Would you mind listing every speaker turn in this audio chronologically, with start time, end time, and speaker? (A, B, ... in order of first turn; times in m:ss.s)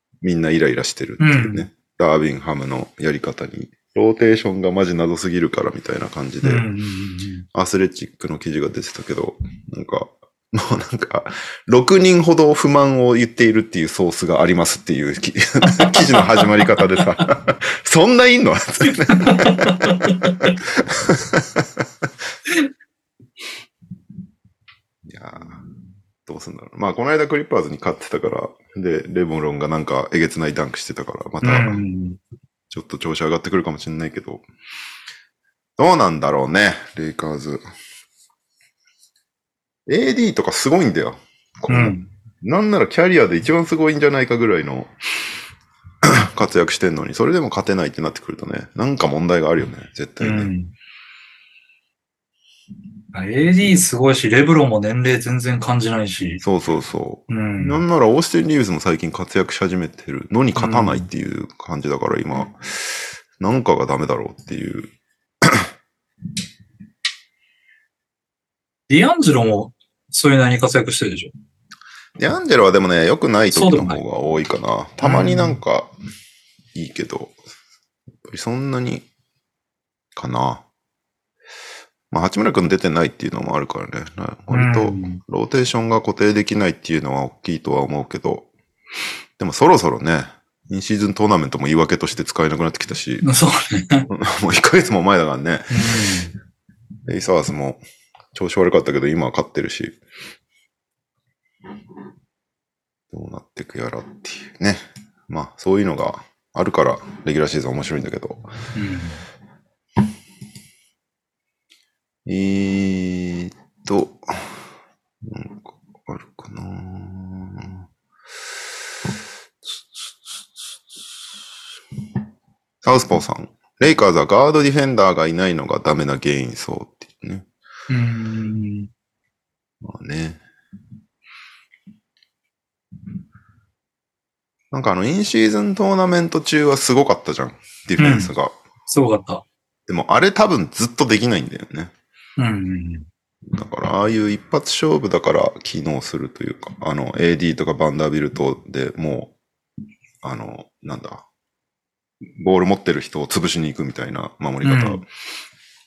0:00.2-0:06.6 A
0:01.2-0:01.7 B
0:06.4-0:07.4 B
0:07.5-0:22.0 A
0:18.8-0:20.5 B
0:25.0-0:25.6 A
0:26.2-0:31.8 A
0:31.4-0:32.2 B
0:32.7-0:34.4 A
0:35.8-0:37.6 A
0:39.9-0:44.9 A
0:41.7-0:42.0 B
0:46.0-0:50.5 A
0:50.2-0:50.7 B
0:53.1-0:56.4 B
0:56.4-1:04.9 A
0:57.3-0:57.8 B
1:00.6-1:01.1 B
1:05.4-1:05.7 A
1:08.9-1:11.3 B
1:12.2-1:15.9 A
1:13.5-1:14.0 B
1:15.0-1:15.6 B
1:16.7-1:17.4 A
1:18.2-1:19.1 A
1:20.1-1:20.6 A
1:22.1-1:28.5 A
1:24.5-1:25.2 B
1:29.4-1:33.2 A
1:33.2-1:34.1 B
1:34.1-1:35.9 A
1:35.7-1:36.3 B
1:37.1-1:37.8 A
1:38.3-1:40.0 A
1:43.1-1:48.5 A
1:48.7-1:49.2 B
1:52.2-1:54.6 A
1:55.2-1:57.8 A
1:59.6-2:00.4 A
2:02.8-2:07.5 A
2:07.9-2:08.9 B
2:09.8-2:10.4 A
2:14.7-2:18.5 A
2:18.0-2:18.3 B
2:18.9-2:19.4 B
2:19.9-2:21.9 A
2:22.4-2:23.1 B
2:23.4-2:29.3 A
2:30.2-2:31.2 A
2:32.2-2:35.1 A
2:34.6-2:35.0 B